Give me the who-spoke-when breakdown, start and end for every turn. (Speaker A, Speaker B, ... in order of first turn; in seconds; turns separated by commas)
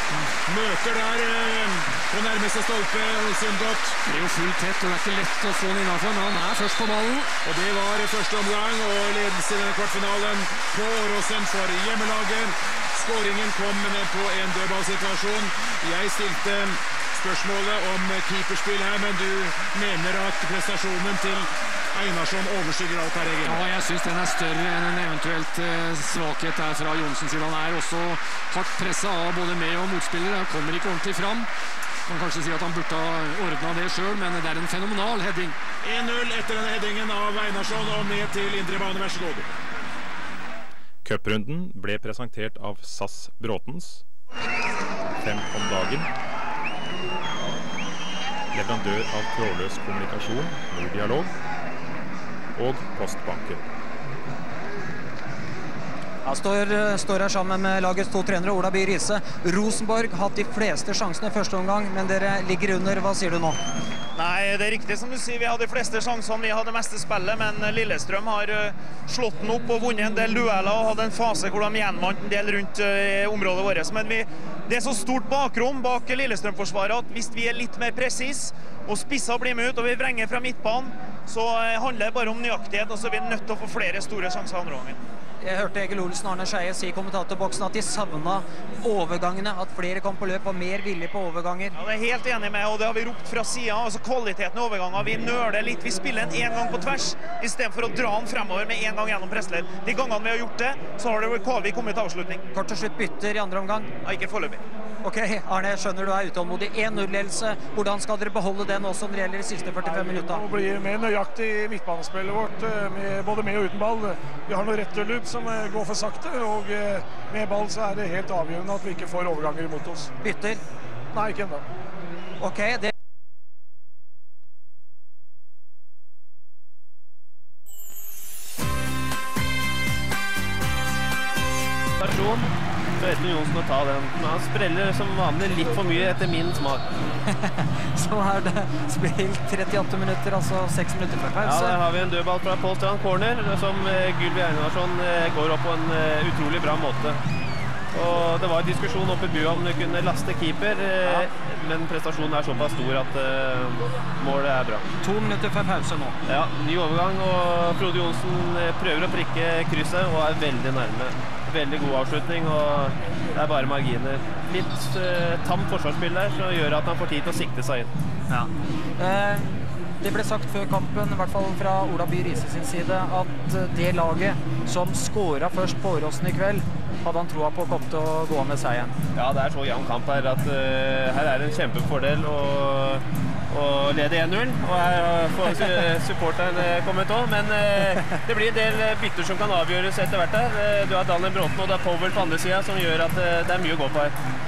Speaker A: 0.3-4.0, Speaker B: 4.0-7.3, Speaker A: 7.4-23.6, Speaker B: 23.4-31.5, Speaker B: 32.1-35.6, Speaker A: 35.8-39.5, Speaker C: 41.0-44.0, Speaker C: 45.2-46.1, Speaker C: 48.5-51.3, Speaker C: 52.6-53.6, Speaker D: 56.2-63.6, Speaker E: 64.2-85.0, Speaker D: 85.4-91.7, Speaker E: 91.8-102.5, Speaker D: 102.5-104.0, Speaker E: 104.0-104.6, Speaker D: 105.0-110.4, Speaker F: 109.8-120.1, Speaker D: 120.2-120.6, Speaker F: 121.1-121.6, Speaker D: 122.4-122.9, Speaker G: 132.0-136.9, Speaker D: 137.3-141.8, Speaker G: 141.4-147.2, Speaker G: 147.9-154.8, Speaker D: 155.0-156.2, Speaker G: 156.3-167.9, Speaker D: 168.3-178.9, Speaker G: 179.2-194.1